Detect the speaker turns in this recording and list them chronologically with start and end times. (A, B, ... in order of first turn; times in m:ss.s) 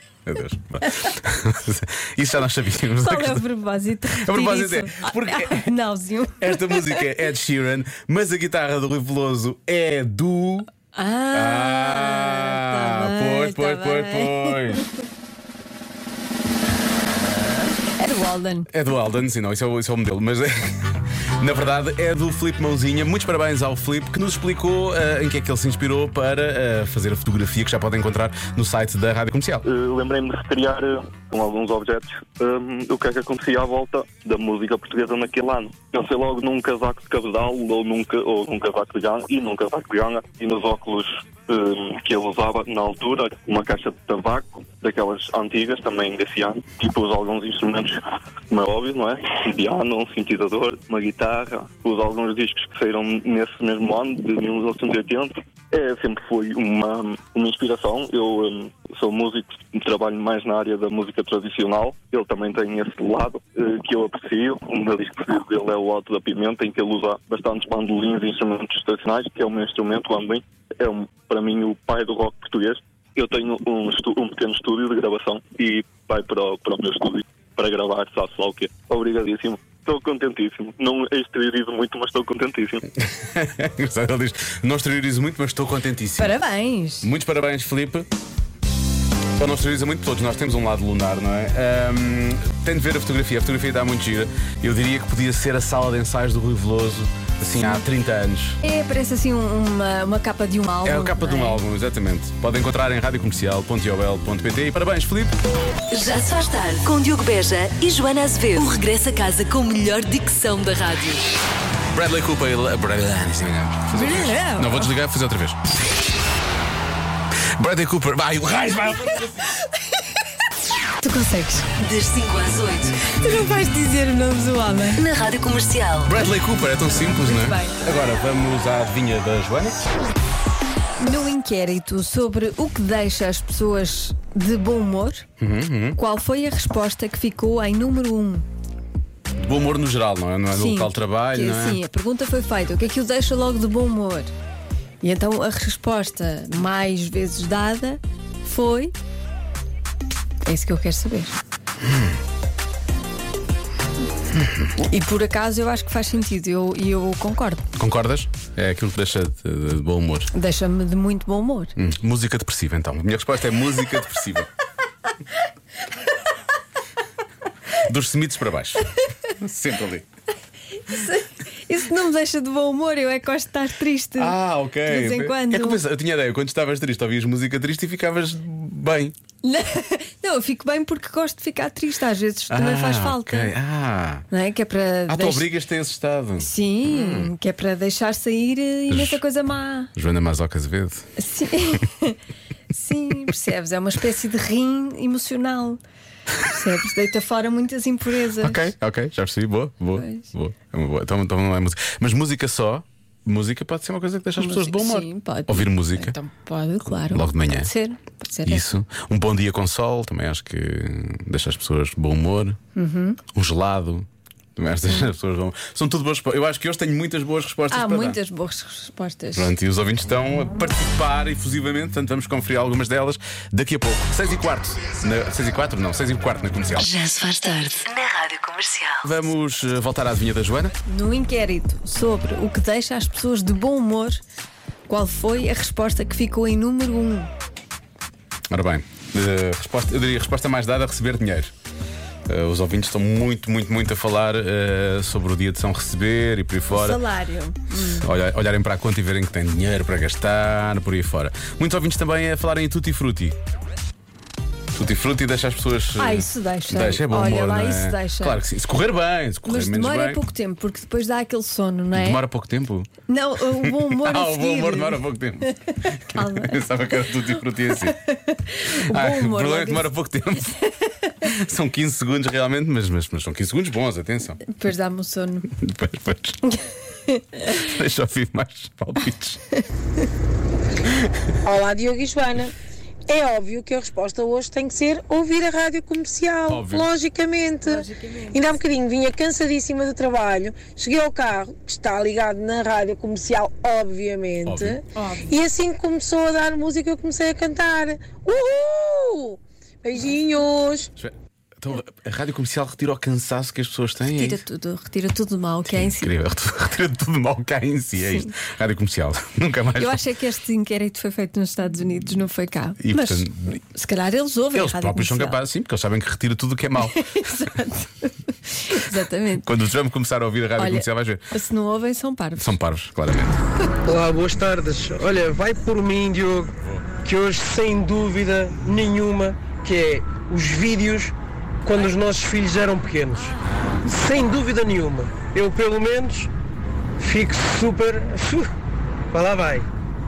0:00.2-0:03.5 A
0:03.0-0:07.0 B
0:04.1-0:05.7 A
0:06.4-0:10.7 A
0:10.9-0:14.6 B
0:11.3-0:14.8 A
0:18.0-0:18.7 B
0:18.7-0:29.6 A
0:29.6-0:48.0 C
0:48.5-1:22.8 C
1:23.0-1:26.4 A
1:26.2-1:27.1 B
1:27.0-1:28.1 A
1:29.4-1:38.6 A
1:38.6-1:41.6 B
1:40.8-1:45.3 A
1:46.0-1:51.0 D
1:51.9-1:55.6 A
1:53.9-1:54.9 B
1:57.6-1:59.3 A
2:01.0-2:01.7 B
2:01.8-2:02.2 D
2:03.1-2:05.0 B
2:05.0-2:05.9 D
2:06.0-2:09.8 A
2:06.8-2:07.8 B
2:11.0-2:15.2 B
2:15.4-2:16.0 A
2:16.0-2:18.4 B
2:19.4-2:21.8 A
2:20.5-2:24.3 B
2:25.0-2:28.9 B
2:30.4-2:31.4 B
2:34.8-2:37.6 B
2:37.8-2:40.3 A
2:40.3-2:41.7 B
2:41.8-2:44.5 A
2:47.8-2:50.0 A
2:50.9-2:55.8 B
2:54.2-2:59.1 A
2:59.4-3:03.5 B
3:02.5-3:04.3 A
3:04.3-3:05.5 B
3:05.1-3:07.3 A
3:06.4-3:09.9 B
3:08.9-3:09.2 A
3:10.0-3:11.0 A
3:11.2-3:12.2 B
3:12.7-3:15.8 B
3:16.5-3:18.7 B
3:18.4-3:26.1 A
3:20.0-3:20.3 B
3:24.4-3:28.7 B
3:27.0-3:27.7 A
3:28.4-3:32.6 A
3:32.8-3:33.2 B
3:33.3-3:38.2 A
3:37.7-3:39.5 B
3:39.3-3:46.9 A
3:46.9-3:47.9 D
3:49.0-3:50.7 A
3:50.8-3:54.2 B
3:54.9-3:57.3 B
3:58.5-4:01.5 A
4:02.3-4:07.0 A
4:06.7-4:08.0 B
4:08.0-4:13.4 A
4:14.7-4:20.2 A
4:16.0-4:18.4 B
4:19.4-4:22.2 B
4:21.9-4:22.9 A
4:23.1-4:25.0 B
4:23.5-4:28.0 A
4:26.1-4:26.6 B
4:27.8-4:29.9 B
4:28.8-4:30.6 A
4:31.2-4:34.4 A
4:34.4-4:35.5 B
4:35.6-4:36.4 A
4:37.5-4:39.4 A
4:41.4-4:42.5 E
4:43.1-5:00.9 E
4:46.4-4:47.0 A
4:47.6-4:48.5 B
4:54.4-4:54.8 A
5:01.0-5:04.4 A
5:04.1-5:06.1 B
5:05.7-5:10.0 A
5:08.0-5:08.3 B
5:09.8-5:15.4 B
5:12.8-5:13.6 A
5:14.5-5:17.2 A
5:16.8-5:19.5 B
5:19.4-5:21.2 A
5:20.6-5:22.5 B
5:22.4-5:23.4 A
5:23.8-5:26.5 F
5:27.0-5:31.1 F
5:31.6-5:36.3 F
5:37.0-5:38.5 F
5:39.1-5:39.7 F